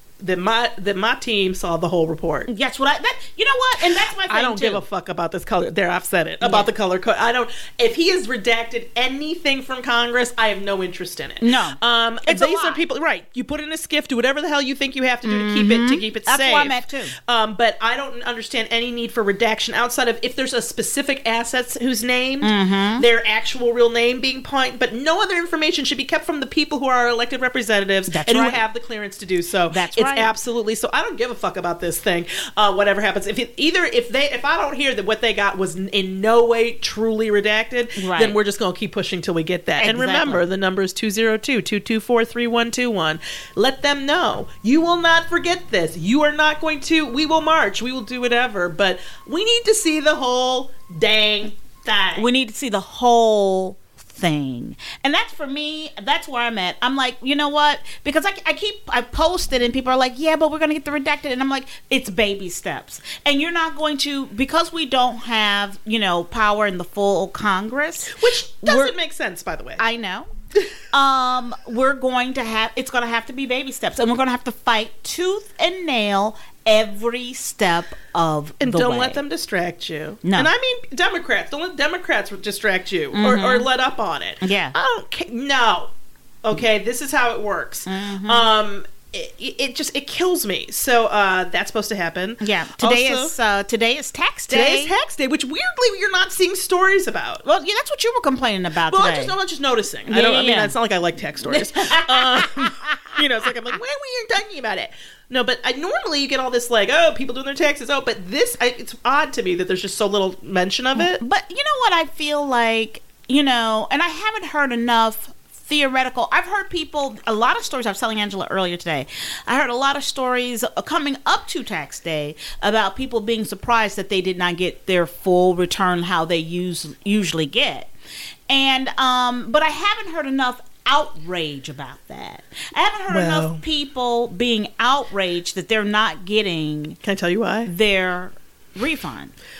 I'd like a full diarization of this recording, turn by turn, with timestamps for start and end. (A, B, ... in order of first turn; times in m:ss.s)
0:00.2-0:02.5 A
0:02.5-0:04.8 B
0:03.8-0:52.2 A
0:06.4-0:06.7 B
0:11.4-0:12.8 B
0:15.2-0:17.1 B
0:22.4-0:23.0 B
0:28.1-0:28.6 B
0:29.7-0:30.3 B
0:38.0-0:38.4 B
0:39.8-0:40.4 B
0:52.1-1:08.9 B
1:08.2-1:09.8 A
1:09.8-1:10.3 B
1:10.9-1:19.2 B
1:18.6-1:25.9 A
1:20.2-1:20.5 B
1:23.1-1:23.7 B
1:24.4-1:24.7 B
1:26.4-1:33.3 A
1:27.8-1:28.5 B
1:32.4-1:34.9 B
1:34.5-1:37.4 A
1:37.4-1:39.3 B
1:38.9-1:51.2 A
1:40.1-1:40.7 B
1:41.4-1:43.1 B
1:51.0-2:07.9 B
2:08.5-2:17.0 B
2:13.1-2:13.6 A
2:17.0-2:17.7 A
2:17.6-2:19.3 B